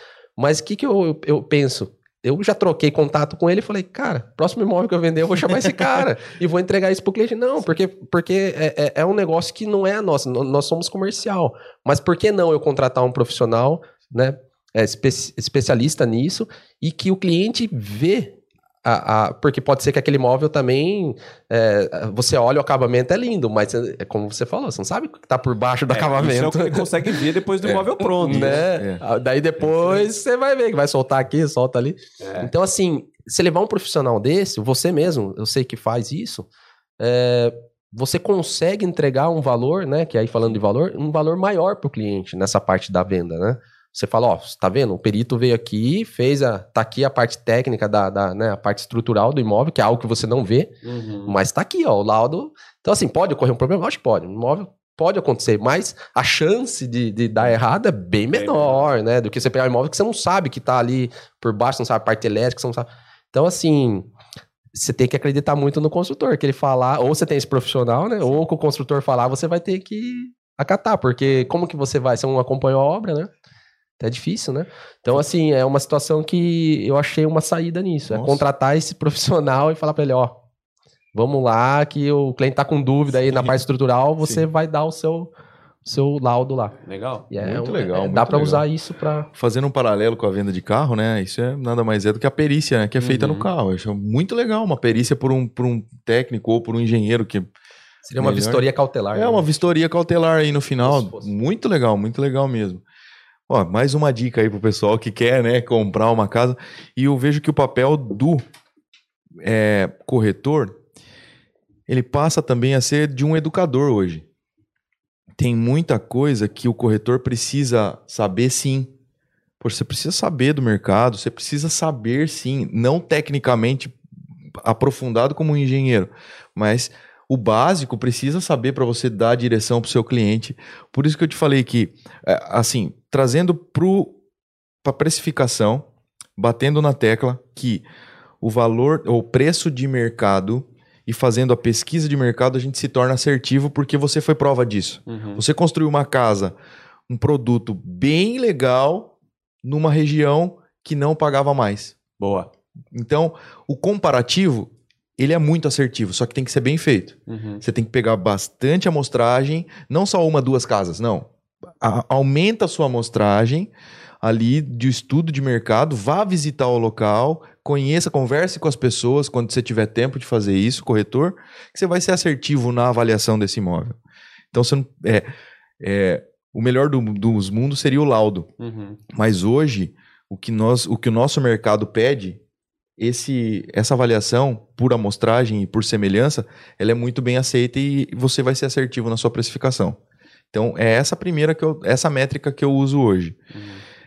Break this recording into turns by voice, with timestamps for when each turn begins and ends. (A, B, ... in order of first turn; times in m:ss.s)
0:00.4-0:27.1 A
0:25.9-0:28.6 B
0:27.7-0:29.0 C
0:28.0-0:36.5 A
0:32.2-0:32.5 B
0:37.0-0:50.7 A
0:50.8-0:51.3 B
0:51.2-1:04.1 A
0:58.3-0:58.9 B
1:04.7-1:13.3 A
1:14.0-1:20.4 A
1:18.1-1:18.4 C
1:21.1-1:25.3 A
1:23.3-1:23.5 C
1:25.8-1:26.7 A
1:26.8-1:27.3 B
1:27.3-1:29.3 A
1:27.4-1:28.6 C
1:29.3-1:37.4 C
1:33.0-1:33.5 B
1:38.0-1:39.5 A
1:38.2-1:38.6 C
1:39.1-1:42.8 C
1:40.8-1:41.3 A
1:43.5-1:48.4 C
1:49.4-1:50.8 C
1:51.9-1:54.2 C
1:55.4-1:58.9 C
1:59.6-2:04.0 C
2:04.6-2:14.1 C
2:14.8-2:17.8 C
2:18.4-2:26.6 C
2:25.1-2:25.4 B
2:27.1-2:29.1 C
2:29.6-2:32.0 C
2:32.2-2:32.5 B
2:32.9-2:41.3 C
2:37.3-2:37.6 B
2:41.8-2:43.7 C
2:44.2-2:54.0 C
2:54.5-2:55.3 C
2:55.8-2:58.5 C
2:58.6-2:59.0 B
2:59.1-3:02.4 C
3:03.0-3:10.0 C
3:10.5-3:13.4 C
3:13.5-3:13.8 B